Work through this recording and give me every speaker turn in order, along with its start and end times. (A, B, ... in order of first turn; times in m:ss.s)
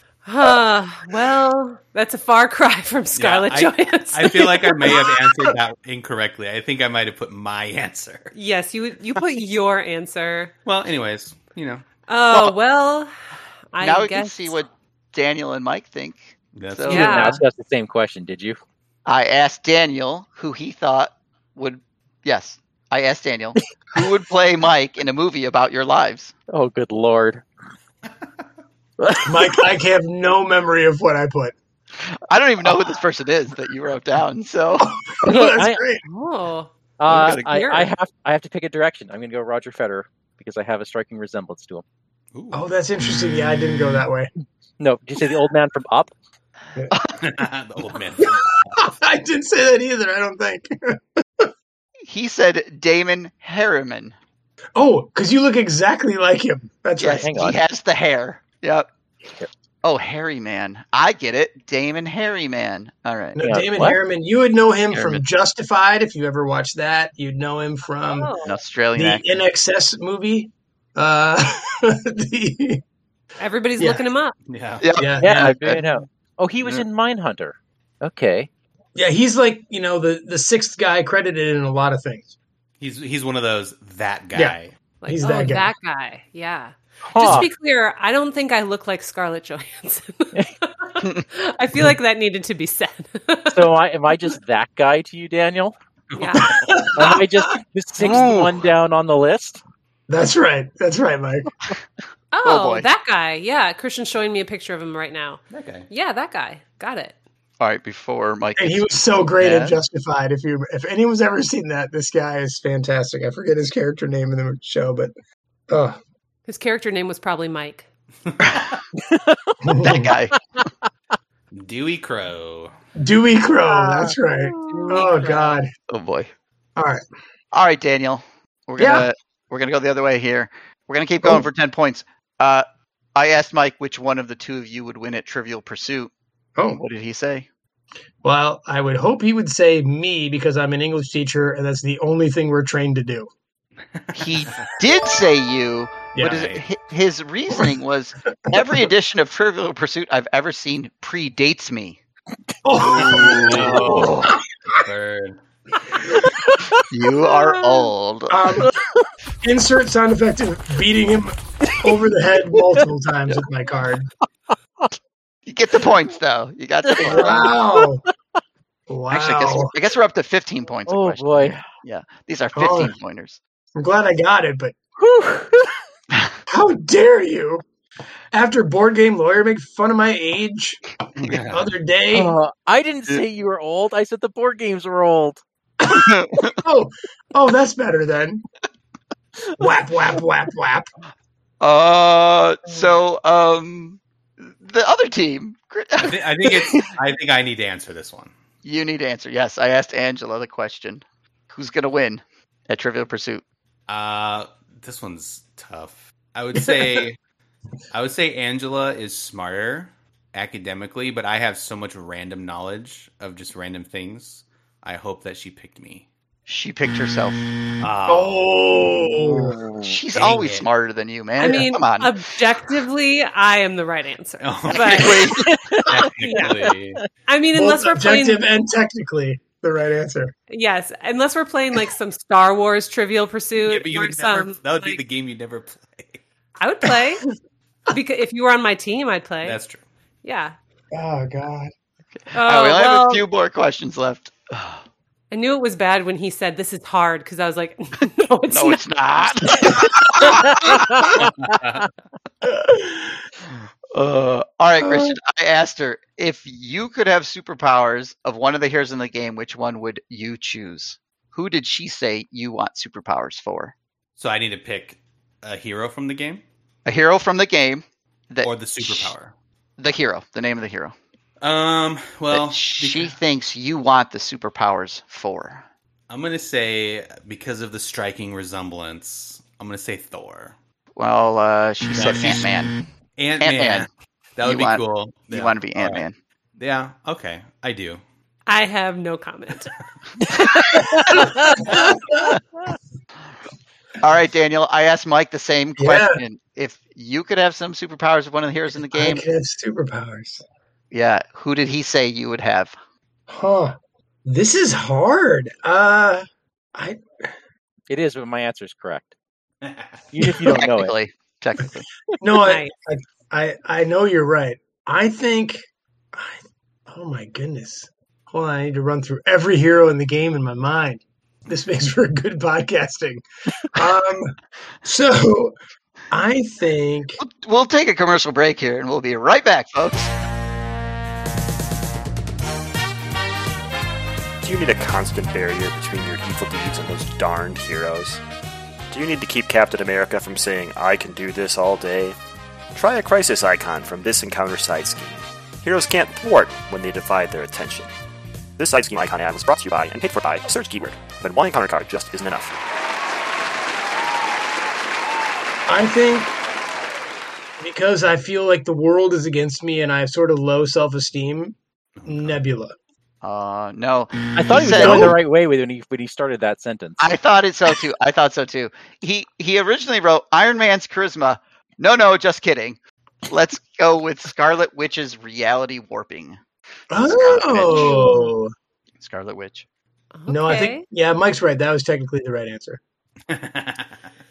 0:00.2-0:04.7 A
0:03.2-0:08.3 B
0:08.3-0:10.5 A
0:10.6-0:11.8 B
0:12.1-0:13.1 A
0:13.7-0:14.6 A
0:13.8-0:17.2 C
0:16.6-0:17.2 B
0:16.9-0:18.6 D
0:16.9-0:17.4 A
0:19.0-0:26.3 C
0:26.5-0:27.4 D
0:29.0-0:29.7 D
0:29.2-0:31.5 E
0:32.0-0:34.9 C
0:34.8-0:36.0 E
0:35.2-0:35.8 D
0:36.0-0:36.7 A
0:37.0-0:41.8 D
0:37.1-0:37.5 C
0:37.4-0:37.9 A
0:42.3-0:42.6 B
0:42.5-0:44.3 E
0:44.8-0:46.1 D
0:46.9-0:47.2 C
0:47.2-0:48.8 B
0:48.2-0:51.5 E
0:52.0-0:54.1 C
0:54.8-0:57.3 E
0:57.0-0:58.9 C
0:57.2-0:57.6 D
0:59.8-1:03.4 C
1:03.4-1:08.3 E
1:03.4-1:04.0 D
1:04.9-1:05.2 C
1:08.1-1:08.5 A
1:08.4-1:09.2 C
1:09.0-1:12.8 E
1:13.4-1:14.3 A
1:13.8-1:14.0 E
1:14.5-1:14.9 B
1:14.8-1:15.8 C
1:15.0-1:15.6 E
1:15.2-1:18.5 D
1:19.0-1:22.3 E
1:22.8-1:24.7 B
1:24.3-1:25.7 E
1:25.0-1:33.7 A
1:27.1-1:27.5 D
1:33.5-1:35.7 D
1:36.1-1:36.7 B
1:36.1-1:36.5 A
1:36.4-1:37.6 E
1:36.9-1:39.6 D
1:38.0-1:38.6 C
1:40.1-1:41.5 E
1:42.3-1:47.2 A
1:42.4-1:42.9 C
1:45.5-1:45.9 B
1:47.6-1:49.8 C
1:48.6-1:55.1 E
1:55.7-1:56.0 E
1:56.5-1:57.9 A
1:58.3-1:58.6 B
1:59.0-1:59.7 D
1:59.6-2:00.1 E
1:59.8-2:00.4 C
2:00.6-2:00.8 D
2:01.5-2:02.7 B
2:03.0-2:05.7 E
2:03.7-2:05.6 A
2:04.6-2:05.0 C
2:05.9-2:06.3 C
2:06.8-2:07.0 E
2:07.5-2:16.1 C
2:08.8-2:09.0 E
2:16.6-2:16.8 E
2:16.7-2:17.5 C
2:18.2-2:23.3 E
2:23.9-2:24.7 B
2:24.1-2:32.0 C
2:26.2-2:26.4 E
2:26.2-2:26.6 B
2:32.6-2:34.4 E
2:32.8-2:34.4 C
2:32.9-2:34.2 B
2:34.8-2:35.4 B
2:36.2-2:36.8 D
2:36.9-2:38.6 C
2:38.3-2:38.7 E
2:38.6-2:39.1 D
2:39.4-2:44.1 E
2:41.6-2:42.0 D
2:45.4-2:47.5 C
2:46.8-2:48.1 D
2:47.0-2:48.0 E
2:48.9-2:49.7 E
2:49.1-2:53.4 C
2:50.9-2:51.7 D
2:52.5-2:52.9 E
2:53.8-2:54.8 E
2:55.0-2:55.7 D
2:56.5-2:57.6 E
2:58.3-3:02.3 E
3:01.2-3:01.7 B
3:02.1-3:05.4 D
3:05.8-3:08.4 E
3:05.9-3:06.5 C
3:09.6-3:10.9 E
3:11.6-3:16.9 C
3:16.0-3:18.3 B
3:18.6-3:23.4 C
3:23.9-3:27.2 B
3:27.9-3:36.1 B
3:36.5-3:37.4 C
3:37.8-3:38.5 B
3:38.1-3:39.6 E
3:39.2-3:39.9 D
3:39.8-3:42.2 C
3:40.1-3:40.7 B
3:41.4-3:45.2 A
3:44.4-3:45.3 B
3:44.7-3:45.5 C
3:45.4-3:47.0 D
3:45.8-3:47.0 B
3:46.2-3:46.5 A
3:47.3-3:48.4 A
3:47.5-3:50.3 E
3:50.5-3:55.0 A
3:53.6-3:56.2 B
3:56.6-3:57.2 A
3:57.9-3:59.6 A
3:59.4-3:59.8 B
4:00.2-4:00.5 A
4:00.9-4:01.7 E
4:02.2-4:04.8 C
4:02.3-4:03.2 A
4:05.3-4:08.8 A
4:08.5-4:10.8 C
4:10.3-4:11.1 D
4:11.4-4:11.8 B
4:12.4-4:13.2 E
4:13.9-4:23.7 C
4:14.8-4:15.1 E
4:24.2-4:26.4 B
4:26.8-4:29.1 C
4:28.4-4:29.3 B
4:29.8-4:30.9 C
4:31.4-4:33.2 B
4:32.3-4:35.6 C
4:36.1-4:40.5 B
4:41.0-4:42.7 C
4:41.9-4:42.5 B
4:43.2-4:46.0 B
4:43.4-4:43.9 C
4:44.4-4:46.1 C
4:46.6-4:48.0 B
4:48.5-4:49.7 A
4:50.3-4:51.7 D
4:50.7-4:51.0 E
4:51.6-4:52.3 E
4:54.0-4:59.2 C
4:55.8-4:56.2 E
4:58.9-5:00.4 E
5:00.9-5:02.7 C
5:03.3-5:06.2 E
5:06.7-5:07.2 E
5:07.9-5:09.1 D
5:09.6-5:10.1 B
5:10.1-5:10.9 D
5:10.2-5:10.6 E
5:10.4-5:11.8 C
5:12.2-5:25.5 E
5:12.4-5:12.7 A
5:26.1-5:27.2 E
5:27.2-5:30.1 C
5:34.4-5:38.2 F
5:38.9-5:42.2 F
5:42.7-5:47.9 F
5:48.6-5:52.5 F
5:55.7-5:56.3 E
5:57.6-6:02.7 E
6:02.0-6:02.4 B
6:03.2-6:05.2 C
6:04.3-6:07.1 D
6:04.6-6:05.2 E
6:07.0-6:18.1 C
6:16.9-6:18.5 E
6:17.7-6:18.3 A
6:19.0-6:19.6 C
6:20.1-6:20.8 A
6:20.3-6:22.8 E
6:23.3-6:24.1 B